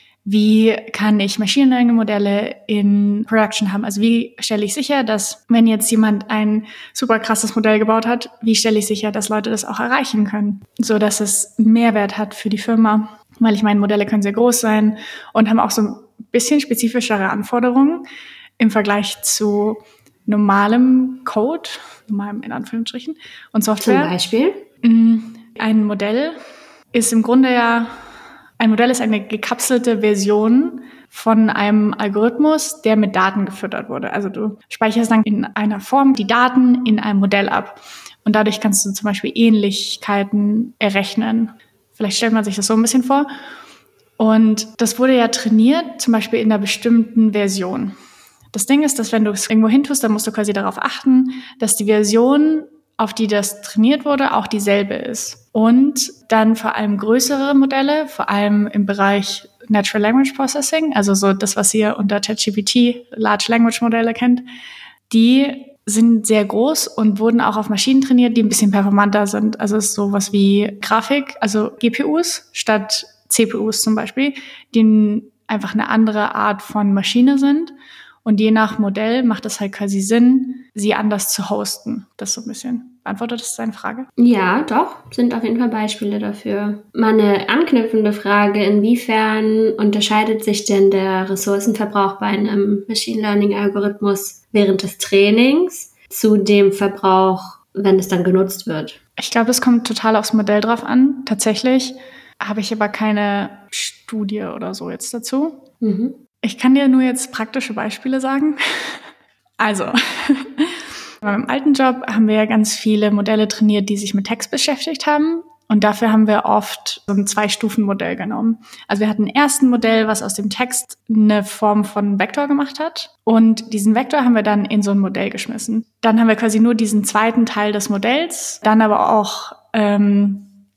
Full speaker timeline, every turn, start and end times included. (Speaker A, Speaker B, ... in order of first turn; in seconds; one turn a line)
Speaker A: 0.2-18.1
Speaker A: 18.6-24.1
Speaker B: 23.8-24.6
Speaker A: 24.8-26.3
Speaker A: 26.9-27.9
Speaker A: 28.6-43.3
Speaker A: 44.2-47.9
Speaker A: 48.5-64.4
Speaker A: 65.1-77.7
Speaker A: 78.2-84.1
Speaker B: 84.2-99.0
Speaker A: 99.2-105.6
Speaker B: 105.8-106.2
Speaker A: 106.4-109.0
Speaker A: 109.6-130.5